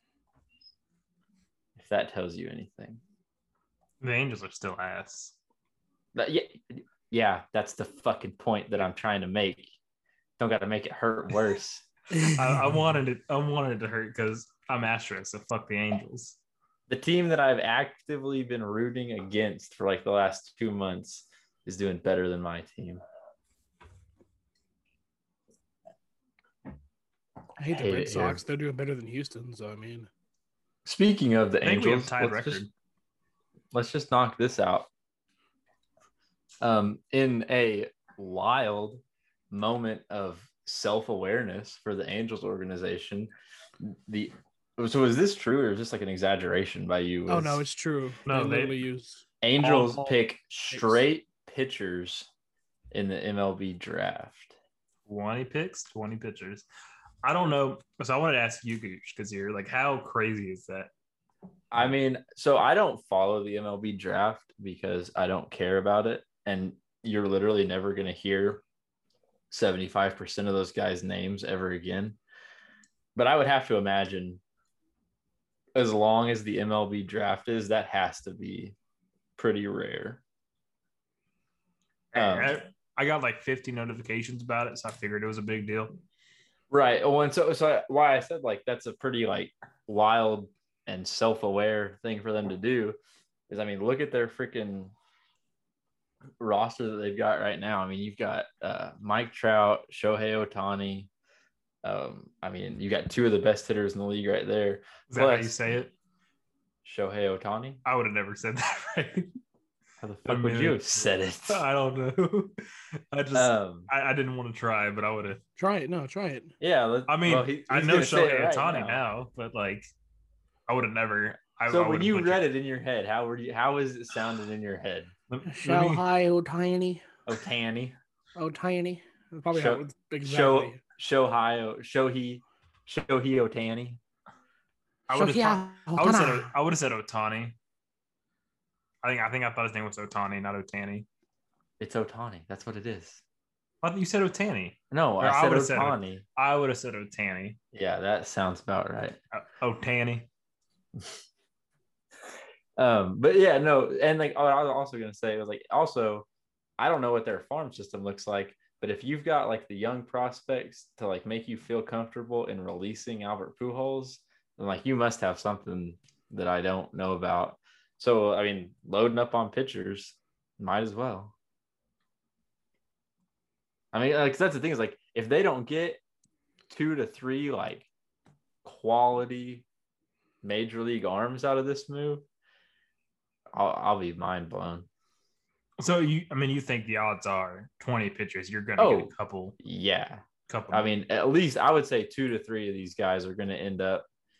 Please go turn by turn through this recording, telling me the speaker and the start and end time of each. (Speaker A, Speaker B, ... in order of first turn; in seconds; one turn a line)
Speaker A: 1.8-3.0
Speaker B: 4.0-5.3
Speaker A: 6.1-9.7
Speaker A: 10.4-11.8
Speaker B: 12.2-16.4
Speaker A: 16.9-23.0
Speaker C: 27.6-30.1
Speaker A: 27.7-28.4
Speaker A: 30.8-32.6
Speaker B: 31.6-32.7
Speaker A: 33.7-34.9
Speaker A: 36.6-47.6
Speaker C: 47.3-49.2
Speaker B: 48.2-48.8
Speaker A: 49.4-52.3
Speaker B: 49.6-50.1
Speaker A: 52.9-54.5
Speaker B: 55.0-56.6
Speaker B: 57.2-60.9
Speaker A: 61.7-68.6
Speaker A: 69.5-72.2
Speaker A: 73.1-74.4
Speaker A: 75.7-78.8
Speaker A: 79.4-80.2
Speaker B: 82.1-86.0
Speaker A: 82.1-82.5
Speaker A: 86.7-93.0
Speaker A: 93.5-94.9
Speaker A: 96.4-101.1
Speaker A: 101.8-105.6
Speaker B: 105.1-105.9
Speaker A: 106.8-107.8
Speaker B: 107.8-109.3
Speaker A: 110.0-111.6
Speaker B: 110.2-112.5
Speaker B: 113.1-115.4
Speaker A: 113.3-113.9
Speaker C: 115.6-116.5
Speaker A: 116.6-119.0
Speaker B: 117.1-119.9
Speaker B: 120.7-122.5
Speaker A: 121.7-125.1
Speaker B: 125.3-126.0
Speaker C: 125.5-127.0
Speaker A: 127.2-128.0
Speaker C: 128.3-130.8
Speaker A: 129.5-134.0
Speaker B: 135.1-137.6
Speaker C: 135.1-136.5
Speaker B: 139.0-141.1
Speaker A: 141.8-143.2
Speaker B: 143.8-147.6
Speaker A: 144.9-146.2
Speaker A: 147.7-149.2
Speaker B: 149.3-150.3
Speaker A: 152.8-156.3
Speaker A: 156.8-171.3
Speaker A: 173.9-176.0
Speaker A: 176.7-177.9
Speaker A: 178.6-179.7
Speaker A: 180.4-182.2
Speaker A: 183.5-184.9
Speaker B: 185.8-189.6
Speaker A: 188.8-194.1
Speaker B: 190.5-190.9